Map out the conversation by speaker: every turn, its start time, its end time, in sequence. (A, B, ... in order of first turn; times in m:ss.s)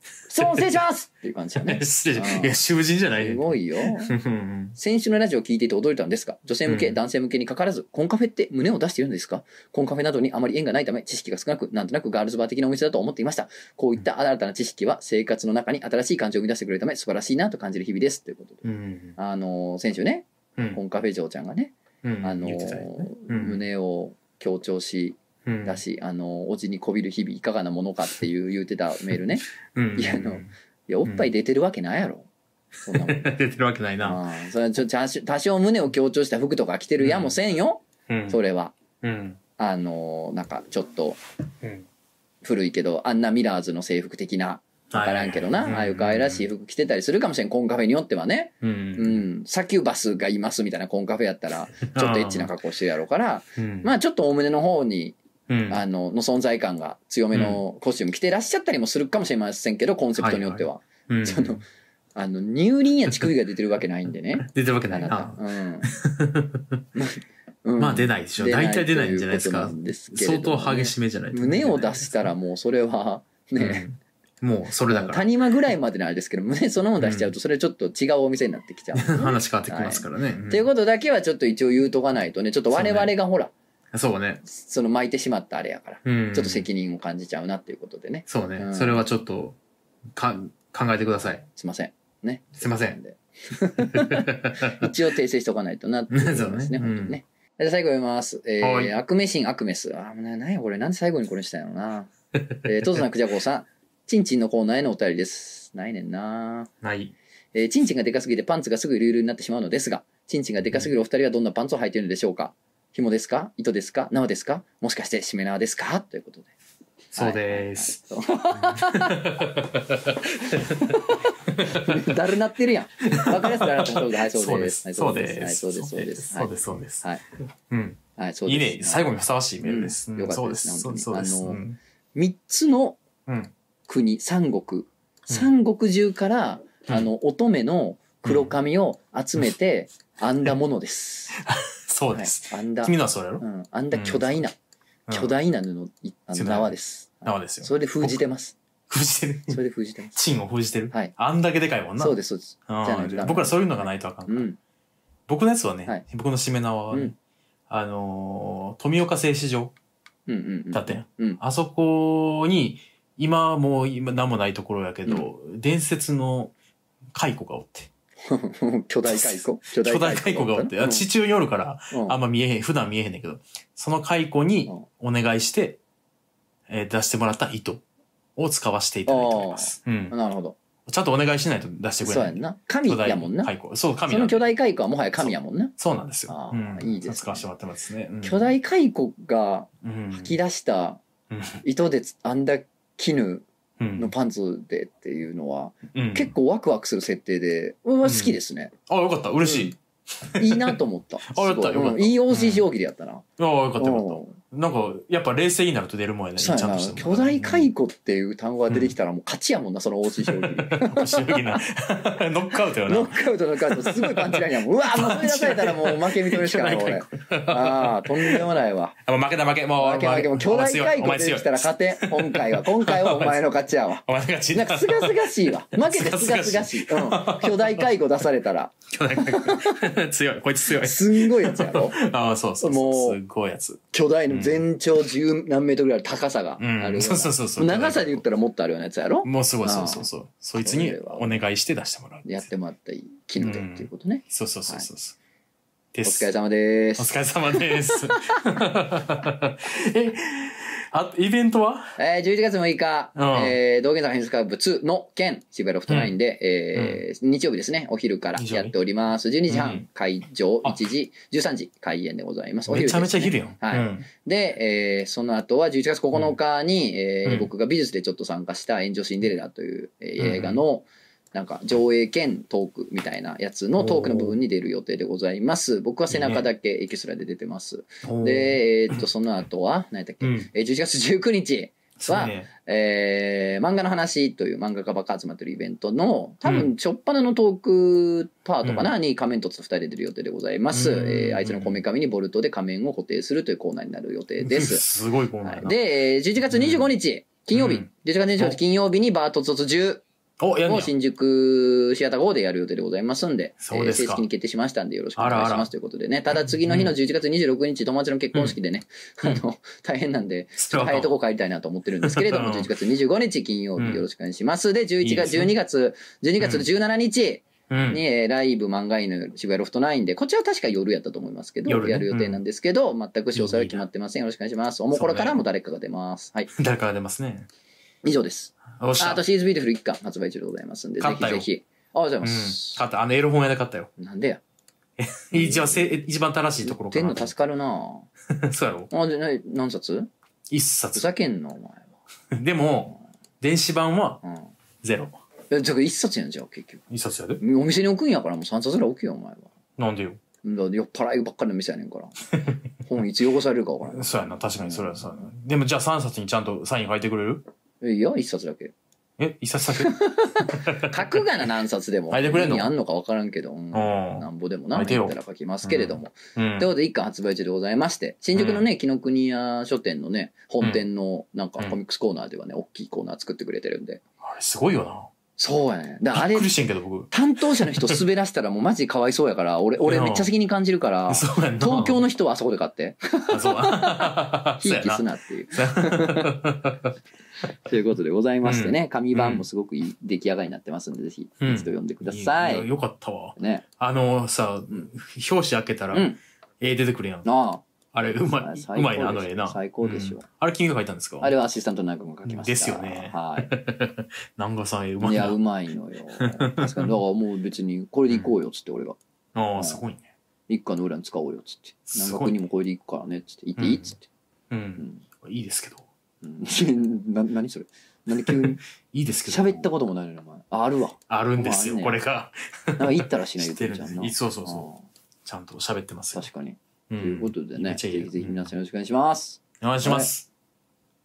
0:00.3-0:02.6 A
0:01.6-0:04.8 B
0:03.2-0:04.2 A
0:04.8-0:32.3 A
0:06.7-0:07.0 B
0:18.6-0:19.2 B
0:22.0-0:23.6 B
0:25.4-0:25.8 B
0:29.7-0:30.5 B
0:32.8-0:33.4 A
0:32.9-0:34.2 B
0:34.0-0:38.8 A
0:37.0-0:37.4 B
0:38.1-0:38.4 B
0:39.0-0:39.4 B
0:39.6-0:41.2 A
0:42.4-0:55.2 A
0:44.9-0:46.5 B
0:48.6-0:49.2 B
0:51.9-0:52.5 B
0:53.6-0:53.9 B
0:55.5-0:55.8 B
0:55.7-1:01.6 A
0:57.3-0:57.6 B
1:00.2-1:01.6 B
1:02.2-1:05.9 A
1:04.4-1:06.8 B
1:07.0-1:13.9 A
1:07.8-1:12.3 B
1:13.6-1:15.3 B
1:14.9-1:23.5 A
1:17.0-1:17.3 B
1:19.0-1:20.6 B
1:22.7-1:23.1 B
1:23.9-1:24.4 B
1:24.4-1:29.0 A
1:26.0-1:26.7 B
1:28.3-1:29.6 B
1:30.2-1:31.4 B
1:31.5-1:42.1 A
1:32.6-1:33.0 B
1:33.9-1:34.9 B
1:36.1-1:37.2 B
1:38.6-1:39.0 B
1:42.6-1:46.7 A
1:46.8-1:47.1 B
1:47.5-1:56.5 A
1:57.1-1:58.0 B
1:57.1-1:59.2 A
1:58.5-2:02.2 B
2:00.5-2:07.2 A
2:03.0-2:07.1 B
2:07.7-2:11.8 B
2:08.2-2:11.6 A
2:12.2-2:13.0 A
2:13.3-2:13.5 B
2:13.9-2:21.4 A
2:18.2-2:18.5 B
2:21.4-2:24.4 B
2:22.1-2:24.6 A
2:25.1-2:25.3 B
2:25.1-2:28.6 A
2:26.3-2:28.2 B
2:28.9-2:29.6 B
2:29.5-2:30.2 A
2:30.2-2:34.5 B
2:32.0-2:34.6 A
2:35.3-2:37.2 B
2:37.7-2:39.7 B
2:40.3-2:41.4 A
2:40.7-2:46.5 B
2:47.1-2:47.9 B
2:48.3-2:51.1 A
2:49.1-2:55.8 B
2:51.9-2:52.2 A
2:56.7-2:57.8 B
2:58.4-3:00.2 B
2:59.1-3:00.6 A
3:00.9-3:04.4 B
3:02.0-3:03.5 A
3:04.1-3:05.8 A
3:05.2-3:08.6 B
3:06.3-3:07.5 A
3:08.2-3:11.0 A
3:09.8-3:10.4 B
3:11.3-3:11.6 B
3:11.6-3:13.4 A
3:13.8-3:14.1 B
3:14.0-3:18.7 A
3:15.9-3:16.3 B
3:18.0-3:18.4 B
3:18.9-3:22.7 B
3:19.4-3:19.8 A
3:20.4-3:23.2 A
3:23.4-3:27.7 B
3:23.8-3:24.4 A
3:26.4-3:31.6 A
3:30.2-3:38.5 B
3:32.8-3:39.0 A
3:39.0-3:43.4 B
3:39.8-3:49.8 A
3:44.0-3:47.9 B
3:48.9-3:54.7 B
3:50.7-3:52.0 A
3:52.6-3:53.2 A
3:53.9-4:01.4 A
3:56.6-3:58.2 B
3:59.2-4:02.5 B
4:02.2-4:04.9 A
4:03.4-4:05.2 B
4:05.9-4:06.3 B
4:06.0-4:08.4 A
4:07.0-4:11.9 B
4:12.0-4:54.8 A
4:13.2-4:13.6 B
4:16.8-4:17.0 B
4:18.4-4:18.7 B
4:19.5-4:19.8 B
4:22.7-4:24.1 B
4:30.2-4:30.6 B
4:33.8-4:34.4 B
4:36.1-4:36.4 B
4:38.0-4:39.0 B
4:40.2-4:40.5 B
4:42.0-4:42.5 B
4:46.4-4:46.7 B
4:48.6-4:48.9 B
4:50.7-4:51.8 B
4:54.4-4:55.8 B
4:55.4-5:00.0 A
4:56.5-4:56.9 B
4:57.5-4:58.6 B
5:00.4-5:00.9 B
5:00.7-5:26.5 A
5:03.6-5:04.2 B
5:05.2-5:05.7 B
5:06.6-5:07.0 B
5:10.6-5:11.1 B
5:12.0-5:12.7 B
5:13.8-5:14.0 B
5:15.0-5:15.5 B
5:16.4-5:16.6 B
5:17.7-5:18.0 B
5:21.7-5:22.4 B
5:23.4-5:23.8 B
5:24.9-5:25.4 B
5:26.6-5:27.5 B
5:28.0-5:32.8 A
5:28.7-5:29.2 B
5:31.0-5:31.5 B
5:32.2-5:33.9 B
5:34.0-5:34.4 A
5:35.0-5:37.3 B
5:35.3-5:36.0 A
5:36.6-5:38.1 A
5:38.3-5:38.9 B
5:38.9-5:40.1 A
5:40.5-5:41.1 B
5:41.0-5:41.9 A
5:42.3-5:44.2 B
5:44.2-5:44.5 A
5:44.8-5:45.2 B
5:45.5-5:46.8 A
5:46.9-5:47.4 B
5:47.4-5:49.5 A
5:49.8-5:50.2 B
5:50.4-5:52.1 A
5:52.8-5:55.3 A
5:53.9-5:57.4 B
5:57.8-5:58.7 A
5:59.2-6:01.2 B
5:59.8-6:14.0 A
6:02.1-6:02.7 B
6:03.7-6:06.7 B
6:08.4-6:08.7 B
6:14.2-6:15.1 B
6:15.4-6:16.5 A
6:16.1-6:18.0 B
6:17.1-6:26.4 A
6:19.8-6:20.3 B
6:21.1-6:22.0 B
6:23.3-6:27.0 B
6:27.6-6:32.7 A
6:28.4-6:29.4 B
6:31.4-6:37.3 B
6:33.4-6:33.6 A
6:35.9-6:36.2 A
6:37.2-6:37.6 A
6:37.9-6:41.4 B
6:38.3-6:40.3 A
6:41.2-6:43.5 A
6:42.3-6:45.4 B
6:45.0-6:49.0 A
6:46.2-6:47.0 B
6:49.4-6:50.1 B
6:49.6-6:49.8 A
6:50.5-6:54.1 A
6:51.9-6:52.4 B
6:53.6-6:53.9 B
6:54.5-6:55.8 B
6:54.8-6:55.0 A
6:56.2-6:58.6 A
6:58.3-6:59.7 B
6:59.3-7:02.0 A
7:01.1-7:04.7 B
7:02.8-7:04.8 A
7:05.2-7:06.2 B
7:06.1-7:10.1 A
7:06.9-7:08.5 B
7:09.6-7:10.3 B